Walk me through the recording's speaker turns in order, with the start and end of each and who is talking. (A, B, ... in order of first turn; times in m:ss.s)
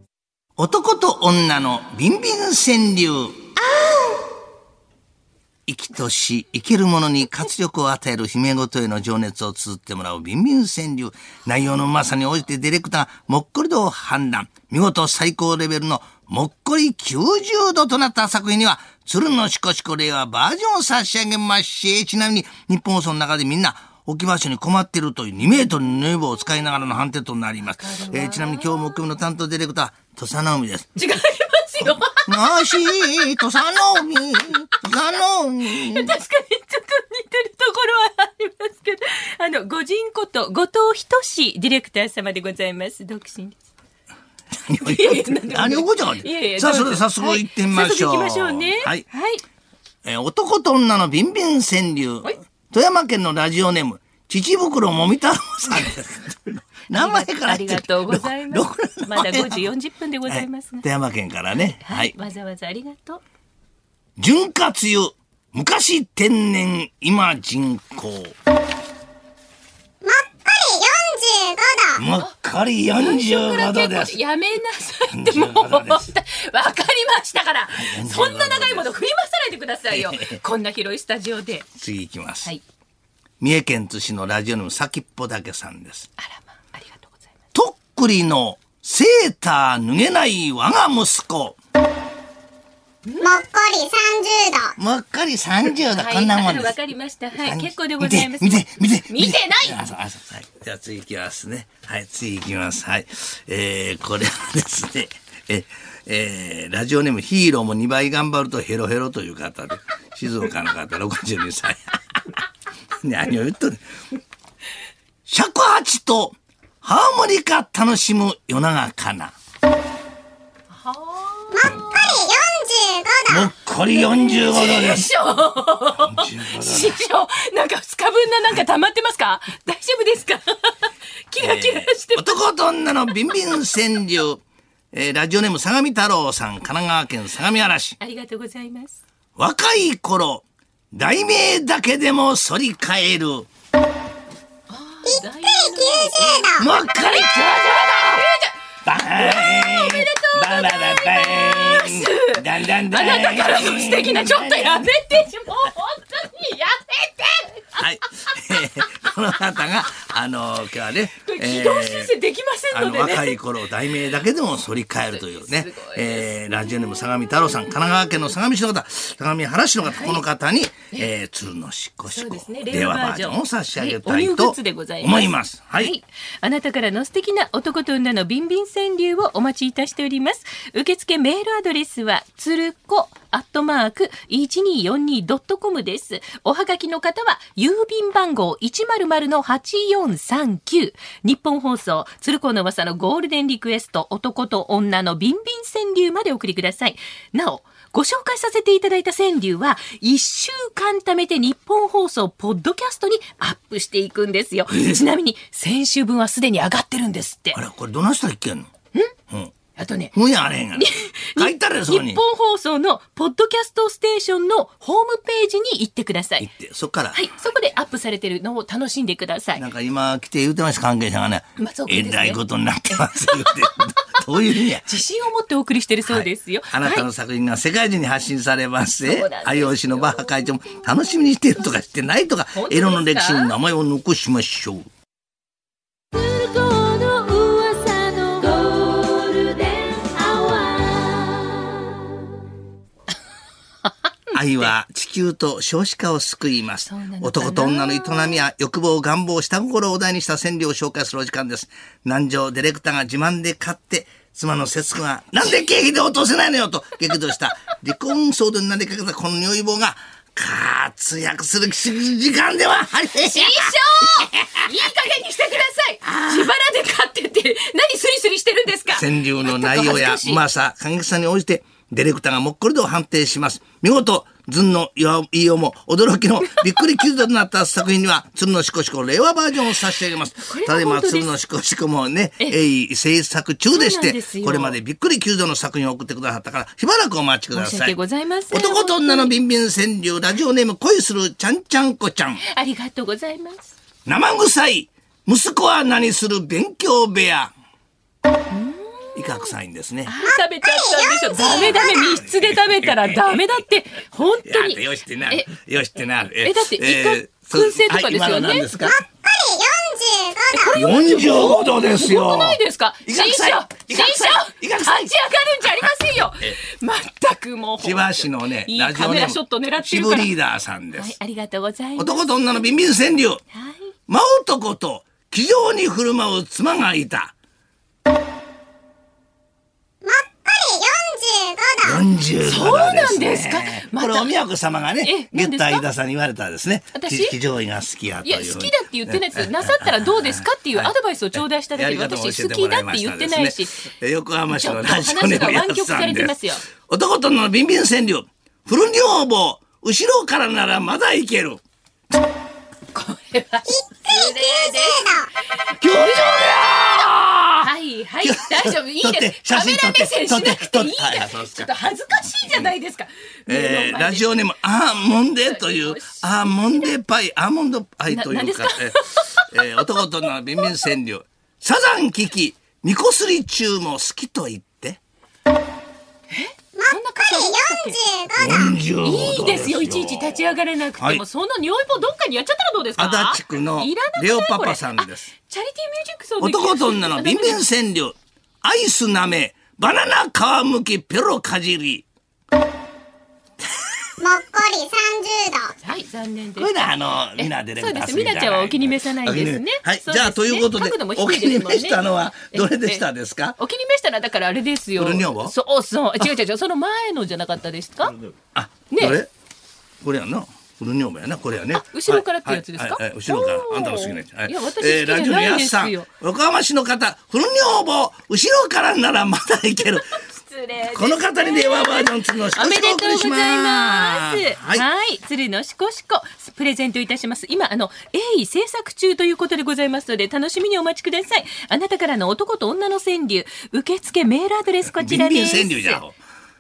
0:00.6-0:03.5 A
0:03.6-0:04.2 B
0:05.7-0:31.0 A
0:27.8-0:29.0 B
0:31.0-0:32.6 B
0:31.8-0:36.2 A
0:35.7-0:43.6 B
0:44.6-0:49.0 A
0:44.8-0:49.4 B
0:50.0-0:59.6 A
0:56.9-1:00.9 B
1:00.3-1:02.1 A
1:01.8-1:03.2 B
1:04.2-1:08.4 A
1:10.0-1:12.0 C
1:12.0-1:14.2 A
1:13.0-1:21.7 B
1:15.1-1:16.1 A
1:17.7-1:19.0 A
1:19.9-1:20.4 A
1:21.8-1:22.5 A
1:23.4-1:26.1 A
1:26.2-1:27.3 B
1:27.5-1:31.6 A
1:33.1-1:33.4 B
1:33.2-1:34.8 C
1:34.8-1:36.8 A
1:35.9-1:39.8 B
1:37.4-1:52.4 A
1:53.0-1:53.8 A
1:55.3-1:59.4 A
2:00.7-2:02.0 B
2:01.8-2:03.5 C
2:03.3-2:05.1 A
2:04.0-2:12.4 B
2:06.0-2:07.0 A
2:11.4-2:18.0 A
2:18.0-2:19.0 B
2:19.4-2:23.5 A
2:24.7-2:28.6 B
2:25.1-2:26.6 C
2:26.6-2:28.3 A
2:28.8-2:35.0 A
2:29.1-2:37.8 B
2:37.8-2:42.1 A
2:41.2-2:43.4 B
2:42.7-2:56.0 A
2:45.1-2:46.3 B
2:49.8-2:50.2 B
2:52.1-3:27.6 B
3:27.5-3:28.7 A
3:29.3-3:29.6 A
3:29.8-3:30.1 B
3:30.1-3:32.2 A
3:30.7-3:36.5 B
3:36.4-3:37.3 A
3:37.1-3:39.6 B
3:39.6-3:44.9 A
3:41.6-3:42.4 B
3:42.9-3:43.6 B
3:44.7-3:47.0 B
3:46.0-3:54.9 A
3:49.0-3:50.7 B
3:52.5-3:53.6 B
3:56.1-4:02.1 B
4:03.8-4:04.7 B
4:04.3-4:24.7 A
4:06.9-4:08.4 B
4:23.2-4:30.4 B
4:26.0-4:26.5 A
4:28.9-4:48.0 A
4:40.4-4:41.3 B
4:43.7-4:44.8 B
4:47.5-4:49.3 B
4:48.5-4:52.4 A
4:52.4-4:53.7 B
4:54.1-4:57.5 A
4:58.5-4:59.5 B
4:59.2-5:00.2 A
5:00.1-5:05.5 B
5:00.3-5:02.1 C
5:01.4-5:03.6 A
5:04.4-5:09.0 A
5:06.4-5:08.7 B
5:08.8-5:10.7 C
5:10.5-5:20.3 B
5:10.7-5:15.9 A
5:17.8-5:21.2 A
5:20.9-5:22.6 B
5:22.0-5:23.4 A
5:23.5-5:23.9 B
5:24.1-5:27.4 A
5:30.0-5:32.0 C
5:31.8-5:40.9 A
5:32.4-5:34.3 B
5:35.0-5:35.8 B
5:36.9-5:37.4 B
5:38.2-5:43.9 B
5:41.7-5:51.6 A
5:44.5-5:46.6 B
5:52.9-5:55.3 B
5:54.0-5:55.3 C
5:55.8-5:57.7 A
5:55.8-5:56.4 B
5:57.6-6:04.4 B
5:58.2-6:02.8 A
6:03.5-6:15.0 A
6:05.4-6:06.9 B
6:08.1-6:09.5 B
6:16.3-6:18.0 B
6:16.8-6:18.8 C
6:18.4-6:20.4 A
6:19.0-6:27.6 B
6:23.0-6:25.3 A
6:26.4-6:32.1 A
6:34.2-6:35.7 C
6:35.8-6:36.7 B
6:36.6-6:43.6 A
6:37.4-6:43.0 B
6:43.6-6:48.1 B
6:45.0-6:45.6 A
6:48.4-6:49.3 A
6:48.9-6:49.2 B
6:50.0-7:00.2 A
6:51.8-6:56.1 B
7:00.0-7:16.0 B
7:00.9-7:04.9 A
7:15.0-7:16.2 A